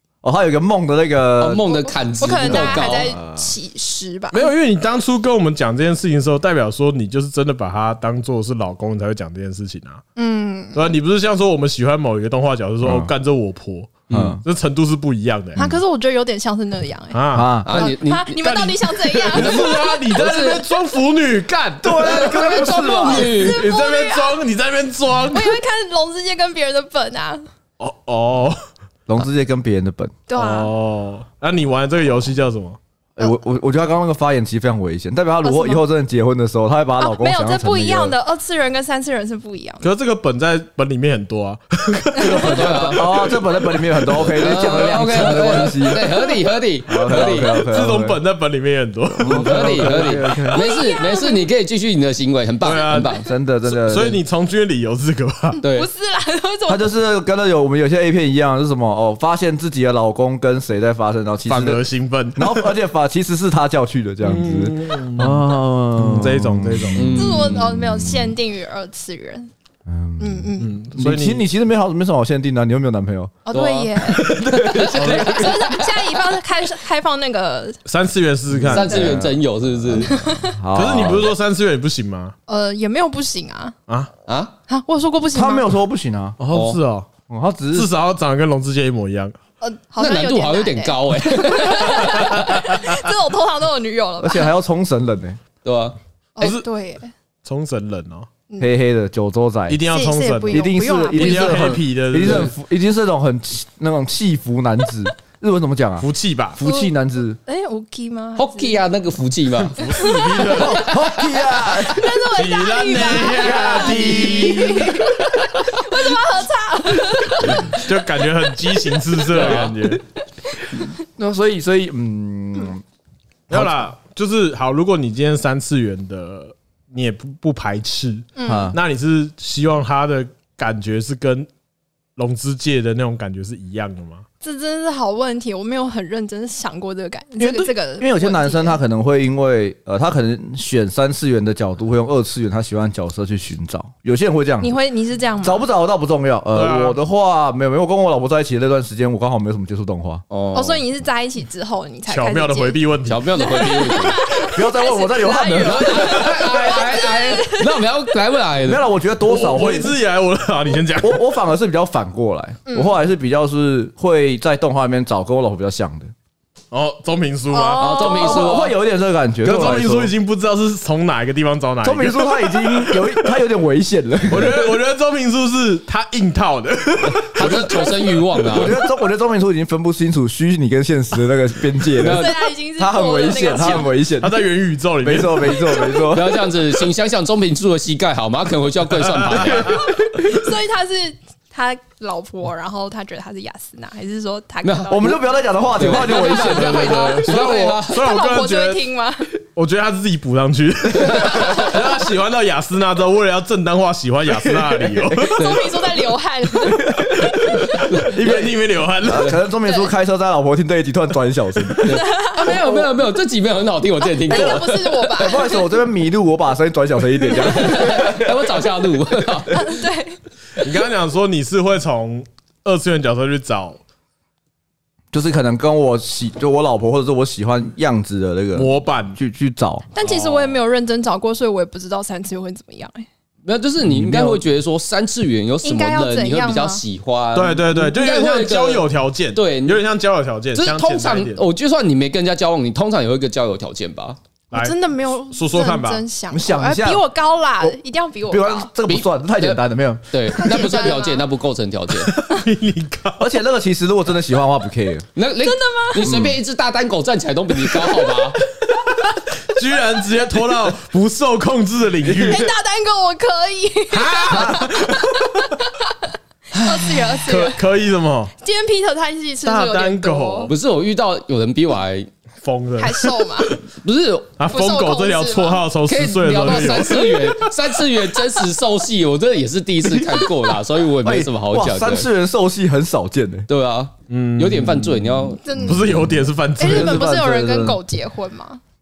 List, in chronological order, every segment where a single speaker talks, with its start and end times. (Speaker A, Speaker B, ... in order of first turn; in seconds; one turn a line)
Speaker A: 0.2-3.5
Speaker B: 1.4-3.1
Speaker C: 1.8-4.5
Speaker D: 4.3-10.0
Speaker C: 10.2-10.8
Speaker D: 10.7-15.6
Speaker A: 12.8-13.1
Speaker A: 14.1-14.4
Speaker C: 15.6-19.9
Speaker D: 17.1-17.5
Speaker A: 17.3-17.8
Speaker B: 17.6-18.5
Speaker D: 18.4-25.6
Speaker B: 19.3-20.7
Speaker A: 21.8-23.3
Speaker B: 22.0-23.6
Speaker C: 22.6-24.4
Speaker C: 25.3-27.4
Speaker D: 27.8-28.6
Speaker A: 29.1-30.1
Speaker C: 30.3-30.7
Speaker D: 30.3-32.8
Speaker A: 33.2-38.1
Speaker C: 35.4-35.8
Speaker C: 37.0-39.9
Speaker D: 39.8-43.0
Speaker A: 42.2-46.1
Speaker B: 42.2-43.1
Speaker B: 44.2-47.6
Speaker C: 45.8-46.4
Speaker A: 46.9-48.2
Speaker D: 47.3-50.3
Speaker A: 49.2-50.6
Speaker B: 49.2-53.2
Speaker C: 50.5-51.4
Speaker D: 52.6-55.6
Speaker A: 53.2-54.2
Speaker B: 55.6-55.9
Speaker C: 55.6-56.9
Speaker A: 56.7-61.8
Speaker D: 61.5-62.7
Speaker A: 62.4-68.3
Speaker D: 64.2-67.2
Speaker B: 66.9-67.7
Speaker C: 67.1-69.5
Speaker A: 69.8-73.3
Speaker C: 70.2-70.7
Speaker D: 70.6-71.4
Speaker C: 73.5-77.8
Speaker B: 73.5-76.1
Speaker A: 74.0-75.4
Speaker D: 74.9-75.5
Speaker D: 77.8-79.2
Speaker A: 78.5-81.3
Speaker B: 78.6-80.1
Speaker C: 78.8-79.1
Speaker C: 79.9-80.6
Speaker D: 80.7-82.3
Speaker C: 82.5-83.8
Speaker B: 84.3-84.5
Speaker C: 84.7-85.7
Speaker A: 85.3-86.4
Speaker D: 86.4-87.1
Speaker B: 86.5-86.8
Speaker A: 87.3-87.9
Speaker D: 87.7-89.3
Speaker C: 89.6-94.5
Speaker B: 90.0-92.5
Speaker D: 92.4-92.9
Speaker A: 94.2-95.4
Speaker B: 95.6-96.0
Speaker C: 96.3-97.1
Speaker D: 96.4-96.6
Speaker D: 97.4-98.3
Speaker A: 98.6-99.8
Speaker D: 99.7-102.5
Speaker C: 99.9-101.8
Speaker A: 100.5-107.4
Speaker D: 106.0-106.6
Speaker C: 106.6-106.9
Speaker C: 107.4-108.8
Speaker B: 108.3-109.8
Speaker D: 109.7-110.9
Speaker C: 109.8-111.0
Speaker A: 110.5-112.1
Speaker C: 111.5-117.8
Speaker D: 112.3-115.4
Speaker A: 113.2-115.2
Speaker D: 117.7-120.0
Speaker B: 119.2-119.8
Speaker A: 121.0-122.8
Speaker D: 123.5-131.5
Speaker A: 123.5-123.8
Speaker C: 128.3-128.7
Speaker A: 128.4-128.8
Speaker D: 132.2-134.2
Speaker C: 134.4-138.8
Speaker A: 137.4-144.7
Speaker C: 144.6-145.7
Speaker A: 145.4-150.2
Speaker D: 146.5-147.0
Speaker B: 150.3-150.8
Speaker C: 150.5-152.8
Speaker D: 152.1-153.8
Speaker B: 153.1-154.2
Speaker C: 153.3-157.9
Speaker A: 154.5-156.3
Speaker B: 155.6-158.8
Speaker A: 158.6-159.9
Speaker D: 159.2-161.2
Speaker A: 161.0-166.1
Speaker C: 162.7-163.0
Speaker D: 166.7-168.2
Speaker C: 167.5-168.6
Speaker B: 167.8-168.7
Speaker A: 168.0-170.1
Speaker D: 169.4-173.4
Speaker A: 171.8-174.7
Speaker D: 174.3-178.2
Speaker B: 177.3-178.8
Speaker A: 178.5-184.4
Speaker B: 182.0-182.4
Speaker C: 182.1-183.9
Speaker D: 183.6-185.8
Speaker A: 185.0-186.5
Speaker C: 185.7-186.0
Speaker B: 186.1-189.8
Speaker D: 189.2-189.8
Speaker C: 189.6-195.3
Speaker B: 194.6-195.2
Speaker A: 194.9-197.1
Speaker B: 195.7-198.0
Speaker D: 195.9-198.8
Speaker C: 197.2-199.3
Speaker D: 199.5-205.4
Speaker B: 201.3-201.7
Speaker A: 204.4-205.3
Speaker C: 205.3-207.8
Speaker B: 205.4-205.7
Speaker A: 206.7-208.5
Speaker D: 207.5-209.4
Speaker B: 207.9-208.5
Speaker A: 209.0-212.8
Speaker C: 209.6-209.9
Speaker B: 211.8-215.3
Speaker C: 211.9-212.8
Speaker C: 214.0-215.7
Speaker A: 214.3-218.5
Speaker B: 217.3-219.6
Speaker C: 217.6-217.9
Speaker C: 219.5-220.2
Speaker D: 220.6-223.8
Speaker A: 225.1-229.9
Speaker D: 228.5-229.2
Speaker C: 229.9-233.1
Speaker D: 230.0-230.6
Speaker B: 233.4-239.8
Speaker A: 233.8-234.4
Speaker C: 235.6-236.8
Speaker D: 237.3-241.4
Speaker B: 240.5-244.2
Speaker D: 244.5-244.8
Speaker C: 244.5-248.7
Speaker D: 245.3-246.0
Speaker A: 246.3-247.0
Speaker A: 248.3-250.1
Speaker B: 248.9-249.6
Speaker B: 250.1-252.1
Speaker C: 250.3-251.2
Speaker D: 252.0-253.2
Speaker A: 253.2-255.1
Speaker B: 255.2-258.4
Speaker C: 255.4-256.1
Speaker A: 256.0-256.4
Speaker D: 258.9-262.5
Speaker A: 262.0-262.5
Speaker C: 262.2-267.6
Speaker D: 263.9-265.5
Speaker A: 264.3-264.6
Speaker B: 266.6-267.1
Speaker D: 267.2-268.3
Speaker C: 268.4-270.5
Speaker D: 269.4-270.5
Speaker B: 270.5-272.1
Speaker D: 272.4-273.6
Speaker C: 272.8-273.6
Speaker B: 273.8-274.4
Speaker D: 274.4-277.5
Speaker C: 274.5-275.6
Speaker B: 275.9-282.1
Speaker A: 281.0-283.5
Speaker B: 283.5-285.4
Speaker D: 284.1-287.0
Speaker C: 285.4-285.9
Speaker A: 285.6-287.8
Speaker C: 286.6-288.6